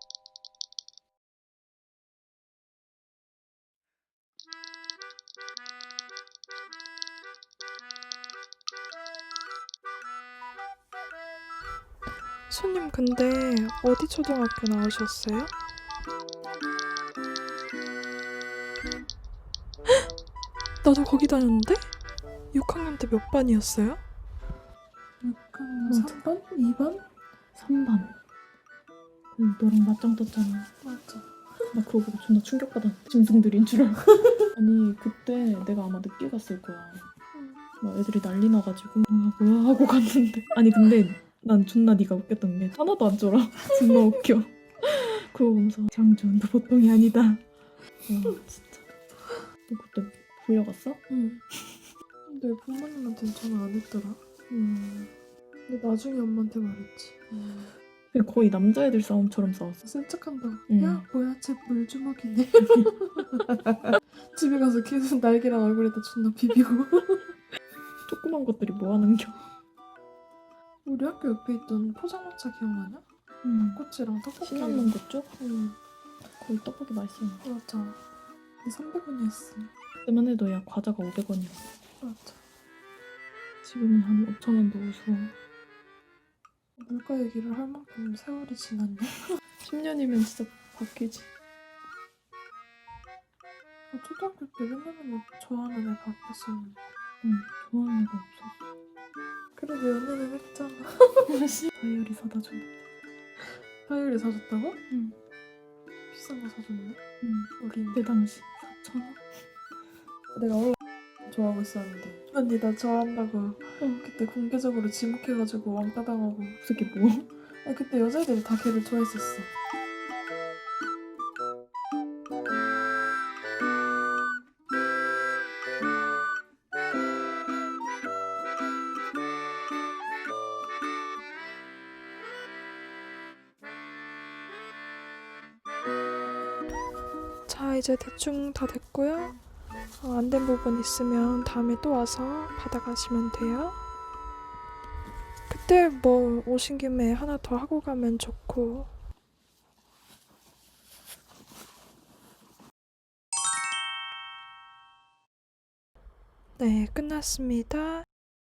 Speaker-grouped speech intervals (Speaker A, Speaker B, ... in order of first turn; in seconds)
Speaker A: 12.5-15.5, 20.8-21.9, 22.5-24.0, 52.4-55.0, 55.7-57.2, 60.1-62.7, 64.4-66.8, 70.8-73.0, 73.9-74.9, 77.5-77.8, 78.7-79.4, 82.0-82.3, 86.8-89.1, 93.9-96.7, 99.6-100.6, 104.1-104.8, 106.1-106.9, 107.7-108.0, 112.4-113.4, 114.2-116.1, 117.9-119.1, 137.5-139.4, 140.0-143.8, 145.5-148.9, 156.6-158.1
Speaker B: 25.2-27.0, 30.8-31.2, 51.1-51.4, 52.3-55.1, 55.7-56.7, 57.2-57.7, 59.8-62.4, 64.2-67.2, 71.1-73.0, 73.8-74.3, 75.4-75.7, 77.5-78.0, 78.7-79.7, 82.1-82.3, 86.9-89.1, 93.9-96.7, 99.7-100.9, 103.8-104.8, 106.1-107.0, 107.6-108.0, 110.3-116.6, 117.6-119.5
Speaker C: 25.9-26.2, 27.6-28.1, 29.4-30.7, 31.7-37.0, 37.8-47.4, 48.1-48.9, 49.7-51.0, 58.1-59.8, 60.7-61.0, 68.1-69.4, 73.4-73.8, 74.4-75.3, 76.4-77.4, 80.1-81.6, 83.6-85.3, 89.6-91.3, 97.2-98.5, 101.5-102.7, 107.2-109.2, 116.6-117.3